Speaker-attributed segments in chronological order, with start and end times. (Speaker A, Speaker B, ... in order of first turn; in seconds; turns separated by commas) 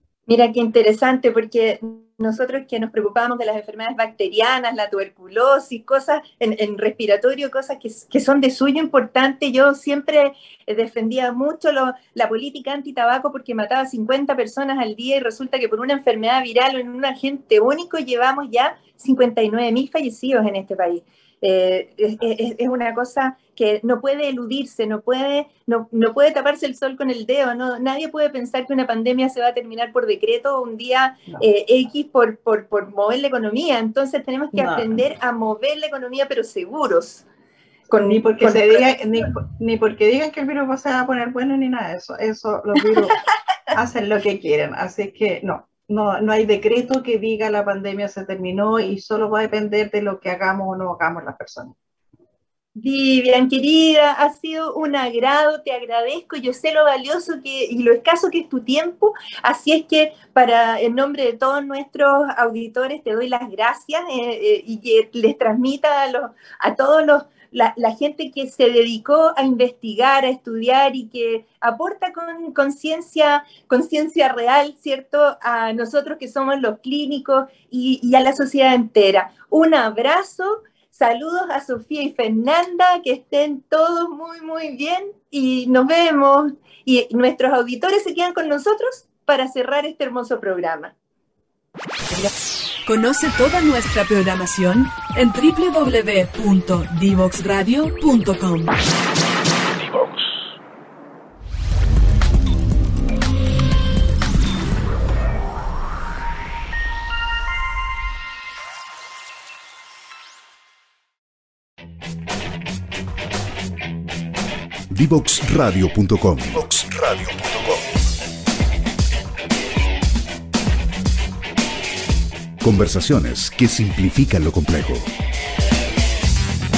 Speaker A: 0.3-37.2, Speaker B: 34.5-35.0, Speaker A: 37.9-39.1, Speaker B: 38.0-43.2, Speaker A: 42.8-43.1, Speaker B: 43.7-51.8, Speaker A: 52.8-90.9, Speaker C: 92.8-98.8, Speaker D: 114.9-117.9, Speaker D: 122.6-125.1